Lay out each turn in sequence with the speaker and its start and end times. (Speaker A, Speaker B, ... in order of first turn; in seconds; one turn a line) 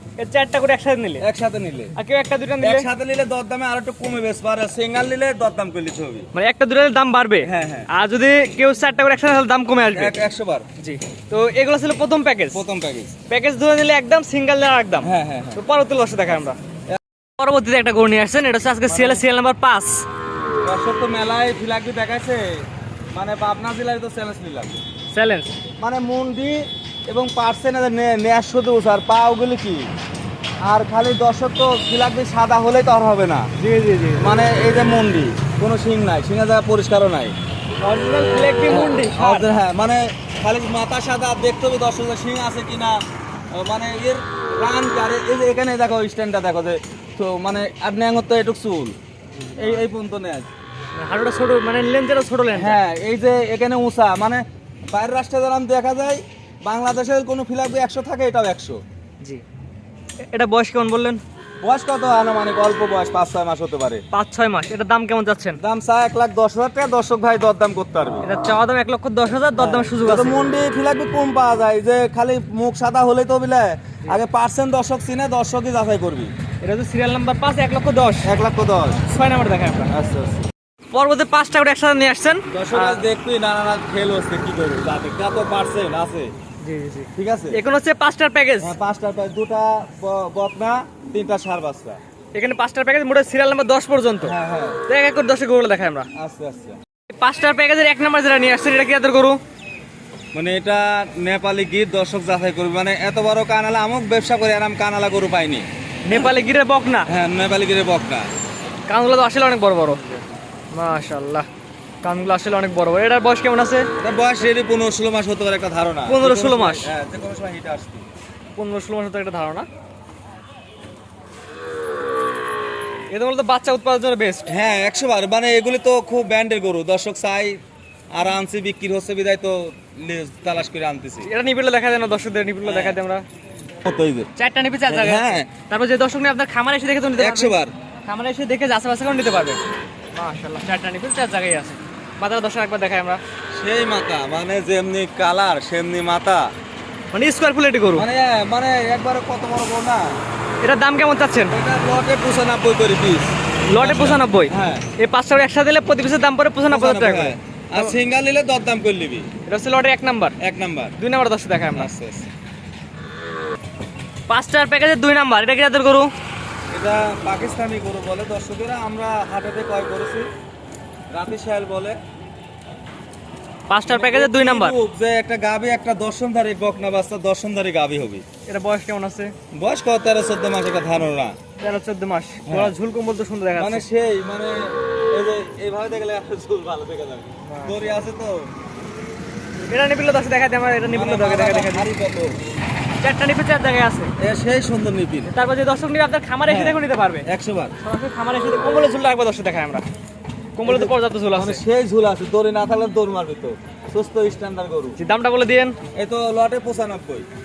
Speaker A: 0.2-1.2
Speaker B: 1.2-1.9
Speaker A: 2.0-2.9
Speaker B: 2.6-6.3
Speaker A: 6.3-10.2
Speaker B: 7.4-7.9
Speaker B: 9.9-10.7
Speaker A: 10.8-12.6
Speaker B: 12.5-13.2
Speaker A: 13.3-16.6
Speaker B: 15.0-15.6
Speaker A: 17.4-20.1
Speaker B: 18.9-19.2
Speaker B: 20.6-22.4
Speaker B: 23.1-24.8
Speaker A: 25.1-25.5
Speaker B: 25.8-29.9
Speaker B: 30.6-33.5
Speaker A: 33.6-34.3
Speaker B: 34.2-37.3
Speaker A: 37.8-39.5
Speaker B: 38.7-43.0
Speaker B: 43.5-49.0
Speaker A: 49.4-49.8
Speaker B: 49.6-50.5
Speaker A: 51.0-52.8
Speaker B: 52.5-58.8
Speaker A: 60.3-61.2
Speaker B: 61.6-64.0
Speaker A: 64.1-65.6
Speaker B: 65.6-68.3
Speaker A: 68.2-70.5
Speaker B: 69.6-76.3
Speaker A: 76.6-78.3
Speaker B: 78.2-79.0
Speaker A: 79.0-79.9
Speaker B: 79.9-80.5
Speaker A: 80.9-83.1
Speaker B: 82.5-86.3
Speaker A: 86.6-88.8
Speaker B: 87.2-87.6
Speaker B: 88.6-92.0
Speaker A: 92.3-94.3
Speaker B: 94.2-94.8
Speaker A: 94.9-96.1
Speaker B: 96.1-96.8
Speaker A: 97.1-99.4
Speaker B: 100.3-106.3
Speaker A: 106.0-107.1
Speaker B: 107.1-108.3
Speaker A: 108.9-110.0
Speaker A: 110.7-111.5
Speaker A: 112.0-113.9
Speaker B: 114.0-118.1
Speaker A: 116.1-116.9
Speaker A: 118.6-119.7
Speaker A: 123.1-124.5
Speaker B: 124.5-127.6
Speaker B: 128.1-131.3
Speaker A: 131.2-133.2
Speaker B: 132.7-133.0
Speaker B: 133.8-134.3
Speaker A: 134.4-137.6
Speaker B: 134.9-135.5
Speaker B: 137.2-137.7
Speaker A: 138.1-139.6
Speaker A: 140.2-143.2
Speaker B: 143.6-146.5
Speaker A: 147.1-148.1
Speaker B: 147.9-150.1
Speaker A: 150.6-151.6
Speaker B: 151.5-154.9
Speaker A: 153.7-157.9
Speaker B: 156.7-159.3
Speaker A: 159.5-160.3
Speaker B: 160.4-161.0
Speaker A: 161.0-161.9
Speaker B: 161.7-162.3
Speaker A: 164.3-166.1
Speaker B: 166.7-170.3
Speaker B: 171.1-172.0
Speaker A: 173.7-174.8
Speaker B: 173.8-178.2
Speaker A: 178.5-179.3
Speaker B: 179.5-181.4
Speaker A: 181.6-183.9
Speaker B: 182.5-182.7
Speaker B: 183.6-188.5
Speaker A: 187.4-188.0
Speaker A: 189.7-191.9
Speaker B: 190.9-192.3
Speaker A: 193.0-194.1
Speaker B: 194.2-195.3
Speaker A: 195.3-197.3
Speaker B: 196.5-197.8
Speaker A: 197.8-199.8
Speaker A: 200.6-201.6
Speaker B: 200.7-205.0
Speaker A: 205.0-205.8
Speaker B: 205.9-207.3